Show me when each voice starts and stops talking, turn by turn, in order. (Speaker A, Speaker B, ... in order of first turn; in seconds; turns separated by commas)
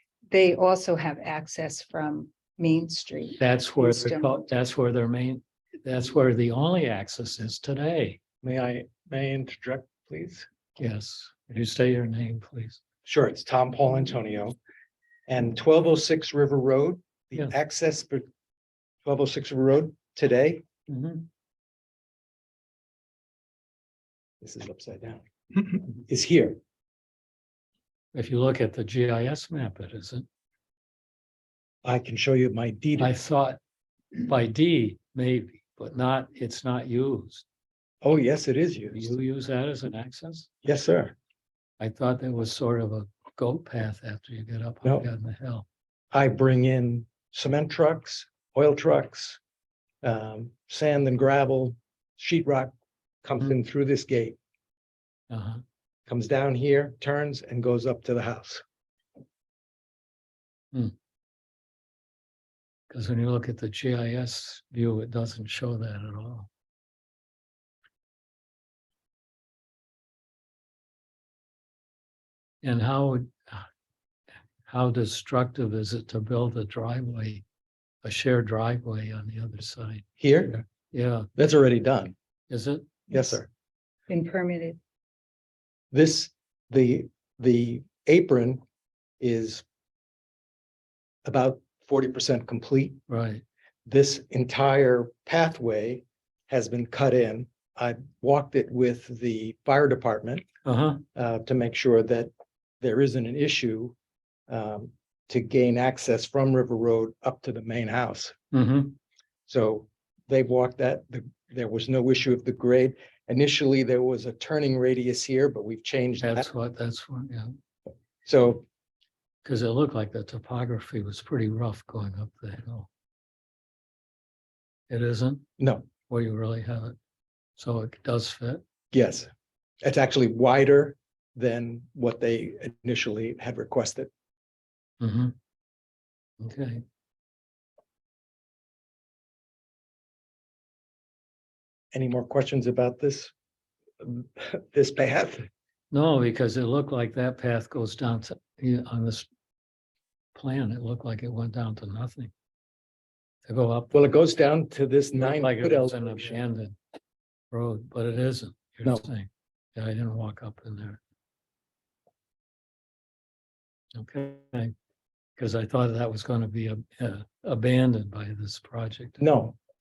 Speaker A: 0.3-4.4, Speaker B: 3.4-8.2, Speaker C: 8.4-10.5, Speaker B: 10.8-12.8, Speaker C: 13.0-14.6, Speaker C: 15.3-18.2, Speaker C: 19.0-20.6, Speaker B: 20.9-21.3, Speaker C: 24.4-26.6, Speaker B: 28.1-30.2, Speaker C: 31.8-33.1, Speaker B: 33.0-33.6, Speaker B: 34.2-37.4, Speaker C: 38.0-39.1, Speaker B: 38.9-40.5, Speaker C: 40.6-41.1, Speaker B: 41.8-45.6, Speaker C: 46.1-49.4, Speaker C: 50.0-52.7, Speaker C: 53.2-54.4, Speaker B: 55.3-55.6, Speaker C: 56.1-58.6, Speaker B: 62.9-66.5, Speaker B: 72.6-73.6, Speaker B: 74.7-77.4, Speaker B: 78.0-80.1, Speaker C: 80.2-80.6, Speaker B: 80.9-81.3, Speaker C: 81.3-82.1, Speaker B: 82.5-83.1, Speaker C: 83.1-83.5, Speaker A: 84.1-84.8, Speaker C: 85.9-88.6, Speaker C: 89.2-89.6, Speaker C: 91.2-93.0, Speaker B: 93.1-93.4, Speaker C: 93.9-100.4, Speaker B: 100.6-101.0, Speaker C: 101.1-102.3, Speaker C: 102.8-103.9, Speaker C: 104.5-108.3, Speaker B: 108.5-109.0, Speaker C: 109.5-116.5, Speaker B: 116.2-117.5, Speaker C: 118.2-118.6, Speaker B: 119.4-122.9, Speaker B: 124.9-125.5, Speaker C: 125.6-125.9, Speaker B: 126.0-126.9, Speaker B: 127.6-128.6, Speaker C: 128.9-129.3, Speaker C: 129.8-134.1, Speaker B: 135.0-135.3, Speaker B: 136.4-136.8, Speaker C: 141.9-143.3, Speaker C: 144.0-145.5, Speaker B: 145.9-149.3, Speaker B: 150.3-152.3, Speaker B: 153.4-153.9, Speaker C: 153.9-156.2, Speaker B: 155.2-156.7, Speaker B: 157.5-161.0, Speaker B: 163.9-164.7, Speaker B: 165.4-169.2, Speaker C: 169.2-169.6